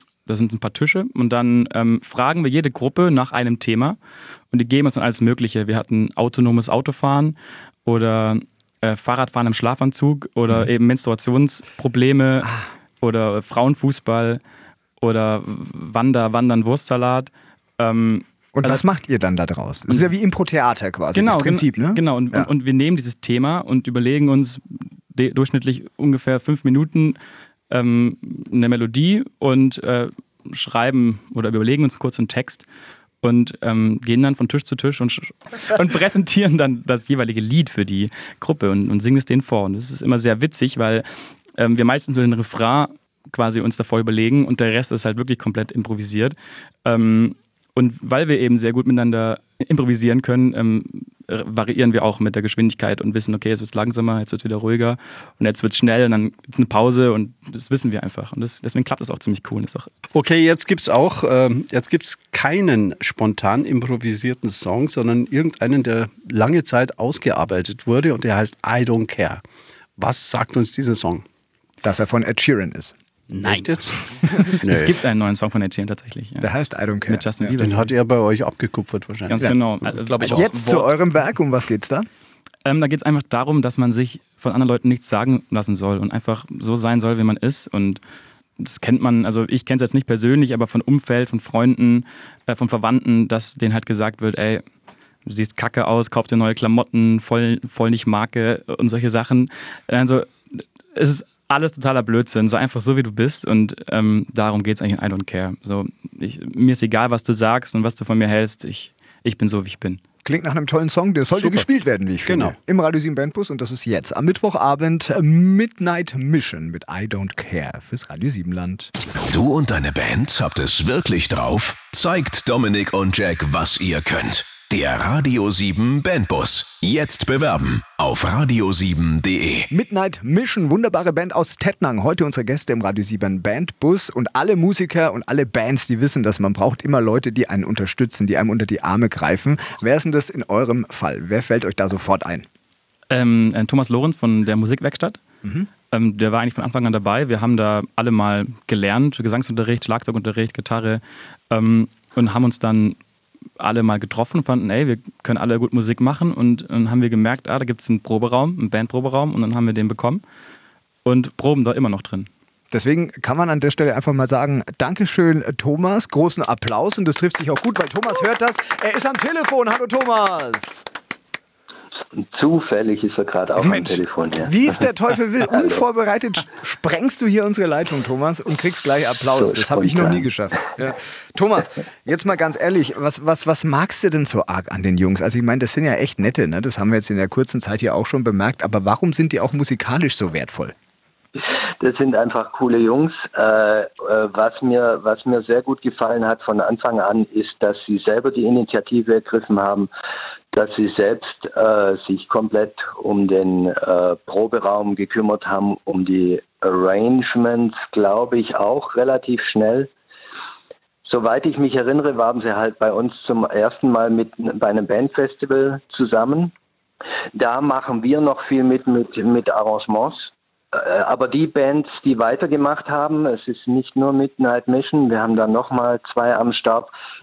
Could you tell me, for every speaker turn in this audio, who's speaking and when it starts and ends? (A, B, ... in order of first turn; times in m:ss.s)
0:00.3-0:04.0 A
0:04.5-0:14.4 A
0:15.0-0:18.8 A
0:18.6-0:22.5 B
0:21.1-0:27.2 A
0:27.7-0:32.7 A
0:33.2-0:41.1 A
0:41.6-0:59.9 A
1:00.2-1:09.4 C
1:10.0-1:11.2 C
1:11.8-1:13.7 B
1:13.3-1:14.0 C
1:14.2-1:14.6 B
1:14.5-1:16.5 A
1:14.6-1:15.0 C
1:16.4-1:17.5 B
1:17.1-1:17.9 A
1:17.6-1:19.5 C
1:19.3-1:20.9 A
1:20.0-1:20.5 C
1:20.3-1:22.1 B
1:22.6-1:28.0 A
1:28.6-1:34.6 A
1:35.2-1:50.0 A
1:50.2-1:58.9 B
1:51.3-1:51.7 C
1:52.2-1:52.6 C
1:59.2-2:09.7 D
2:09.7-2:22.5 B
2:23.1-2:25.2 A
2:25.9-2:33.0 A
2:33.6-2:40.2 A
2:41.0-2:42.3 A
2:42.7-2:50.8 B
2:52.2-2:54.5 E
2:53.6-3:10.8 B
2:55.5-2:55.8 E
2:59.4-3:00.3 E
3:11.4-3:19.9 E
3:20.5-3:29.9 E
3:31.1-3:36.5 E
3:37.4-3:46.9 E